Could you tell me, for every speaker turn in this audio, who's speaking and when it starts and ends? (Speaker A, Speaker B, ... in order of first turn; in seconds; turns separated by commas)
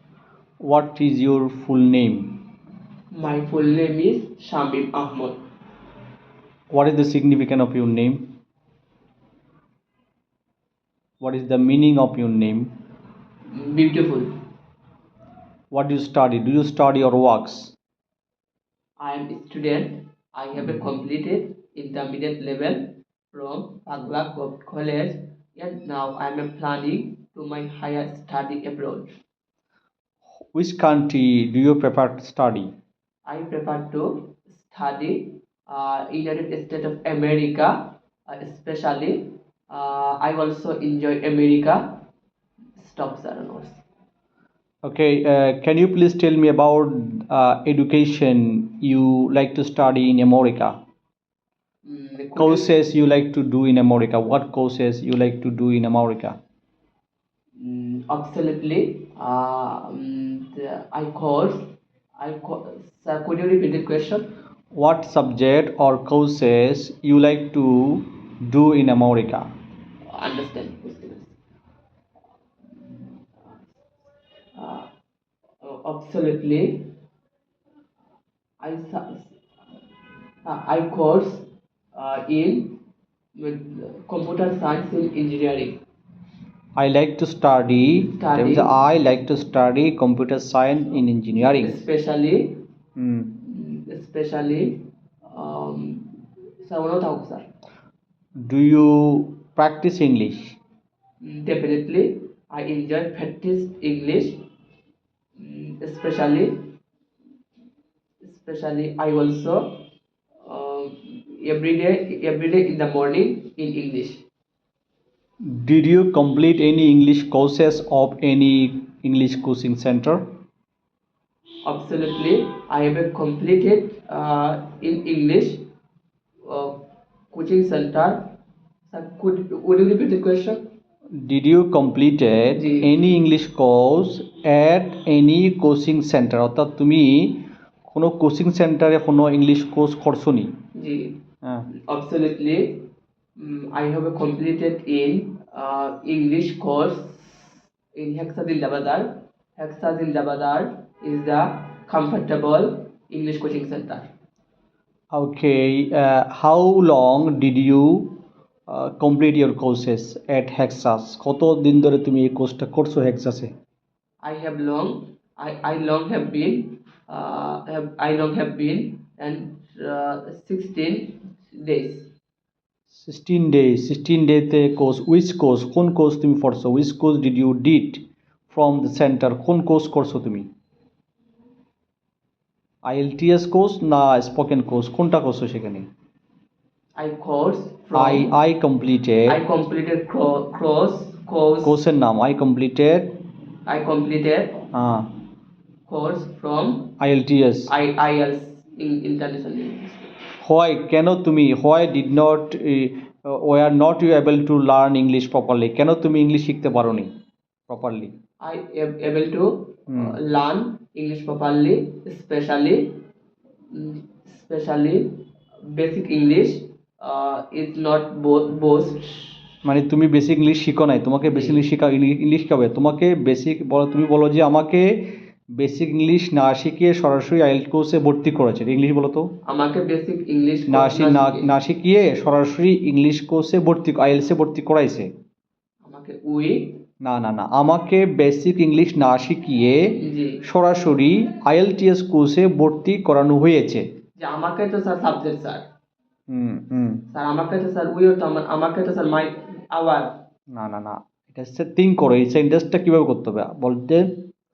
Speaker A: 0.6-2.4, Speaker B: 3.1-5.4, Speaker A: 6.7-8.2, Speaker A: 11.2-12.7, Speaker B: 13.5-14.3, Speaker A: 15.7-17.7, Speaker B: 19.0-29.1, Speaker A: 30.5-32.7, Speaker B: 33.3-42.0, Speaker B: 42.8-43.8, Speaker A: 44.8-50.8, Speaker B: 51.8-52.7, Speaker A: 52.4-56.4, Speaker B: 57.6-64.3, Speaker A: 64.7-69.5, Speaker B: 70.1-71.3, Speaker B: 74.5-74.9, Speaker B: 75.6-76.9, Speaker B: 78.6-79.3, Speaker B: 80.5-82.8, Speaker B: 83.3-85.8, Speaker A: 86.8-91.8, Speaker B: 87.9-88.7, Speaker B: 91.3-92.6, Speaker A: 93.0-93.3, Speaker B: 93.4-97.5, Speaker A: 98.4-100.6, Speaker B: 101.2-104.4, Speaker B: 105.3-106.7, Speaker B: 108.2-109.8, Speaker B: 110.4-114.2, Speaker A: 115.4-120.2, Speaker B: 121.6-125.6, Speaker B: 126.4-126.8, Speaker B: 127.3-128.3, Speaker B: 128.9-130.6, Speaker A: 131.2-140.5, Speaker B: 132.5-132.9, Speaker B: 140.7-141.2, Speaker B: 141.7-154.1, Speaker A: 155.1-158.1, Speaker A: 158.7-163.5, Speaker B: 164.2-172.1, Speaker A: 172.9-180.5, Speaker A: 182.8-185.9, Speaker B: 187.0-188.3, Speaker A: 187.9-189.4, Speaker B: 189.3-191.8, Speaker A: 191.6-193.1, Speaker B: 193.7-194.6, Speaker A: 194.7-195.1, Speaker B: 195.9-196.9, Speaker A: 197.0-197.7, Speaker B: 197.7-200.1, Speaker A: 200.4-207.1, Speaker A: 207.7-208.1, Speaker B: 208.4-213.0, Speaker A: 209.9-210.2, Speaker B: 213.7-219.3, Speaker A: 219.6-224.9, Speaker B: 221.3-221.6, Speaker A: 225.6-229.3, Speaker B: 229.5-231.5, Speaker A: 230.7-235.1, Speaker B: 235.8-236.8, Speaker A: 237.0-239.9, Speaker B: 239.9-240.4, Speaker A: 240.4-243.8, Speaker B: 244.2-245.7, Speaker A: 246.3-247.0, Speaker B: 247.1-250.2, Speaker A: 250.5-254.1